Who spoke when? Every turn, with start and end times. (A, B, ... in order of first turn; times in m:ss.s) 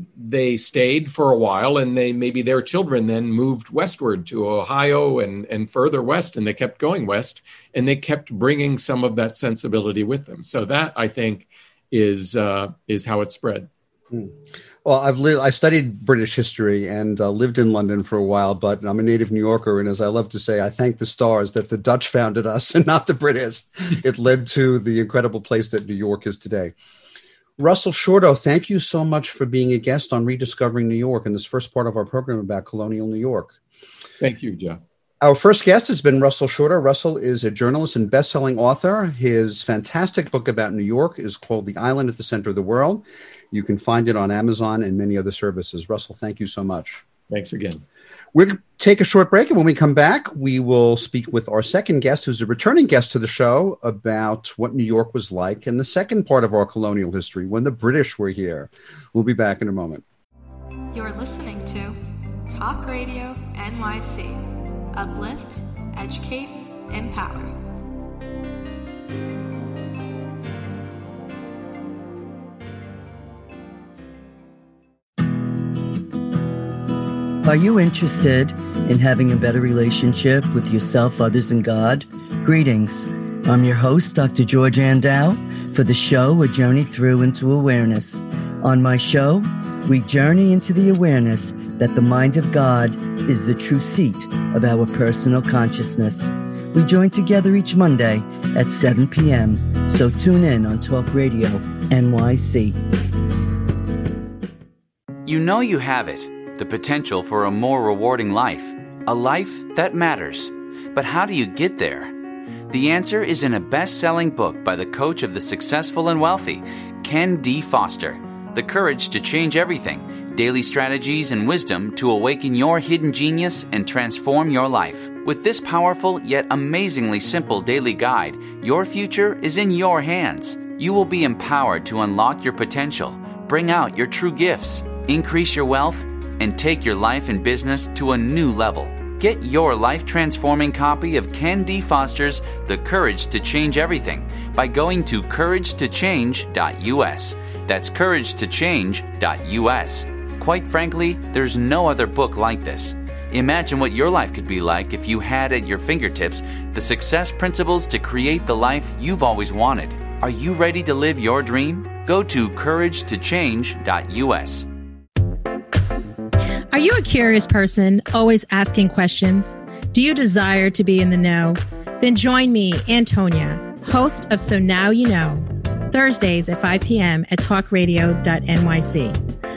0:00.2-0:13.7 A
0:14.1-0:26.8 B
0:27.6-0:33.5 B
0:34.2-0:34.8 A
0:35.2-0:47.0 B
0:47.3-0:47.8 A
0:48.3-1:00.0 B
1:00.9-1:02.0 C
1:02.5-1:07.5 C
1:17.4-1:42.8 D
1:45.3-1:52.1 E
1:52.7-2:44.7 E
2:46.7-2:59.2 F